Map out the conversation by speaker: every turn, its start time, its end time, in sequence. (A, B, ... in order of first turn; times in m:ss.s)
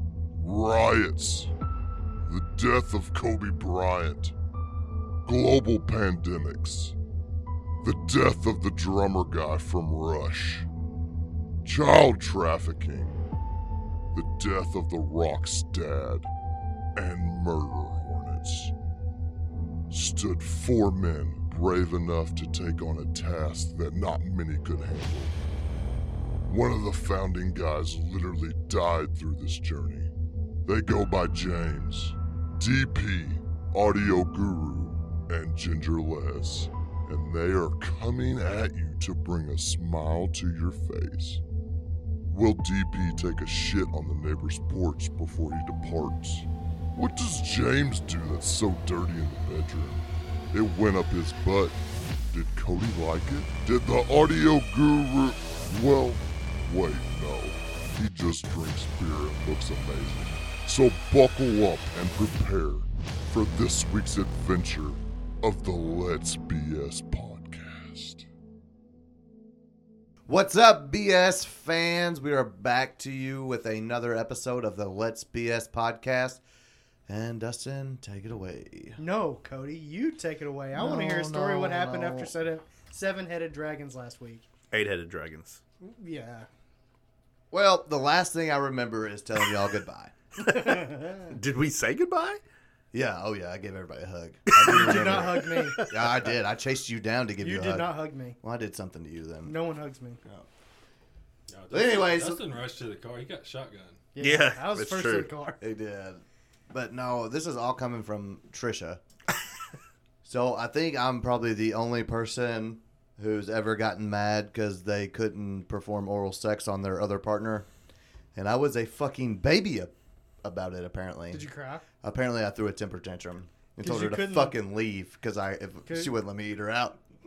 0:00.3-0:01.5 A
0:02.2-0:04.3 A
0:05.2-0:06.9 A
0:07.8-0:10.7 A
0:11.6-0:13.2 A
0:14.1-0:16.3 A
0:17.0-0:18.7 A
0:19.9-0:25.3 A
0:26.5-0:30.1 A
0:30.6-0:41.4 A
0:42.3-0:51.8 A
0:52.3-1:08.2 A
1:10.3-1:16.4 B
1:17.1-1:19.0 B
1:19.0-1:24.4 C
1:20.7-1:22.3 B
1:24.7-1:25.6 D
1:25.8-1:26.5 C
1:27.5-1:30.1 B
1:30.4-1:32.4 D
1:30.5-1:31.3 C
1:32.9-1:37.9 B
1:34.5-1:36.0 D
1:34.6-1:35.8 C
1:37.4-1:38.4 C
1:38.4-1:39.5 B
1:39.4-1:40.2 C
1:41.5-1:44.0 E
1:41.7-1:42.4 B
1:44.1-1:45.6 C
1:44.2-1:45.3 D
1:45.6-1:49.0 B
1:50.2-1:57.7 B
1:58.3-1:59.9 B
2:00.4-2:01.4 B
2:01.3-2:01.8 C
2:02.0-2:07.0 B
2:03.8-2:04.5 C
2:05.9-2:06.1 C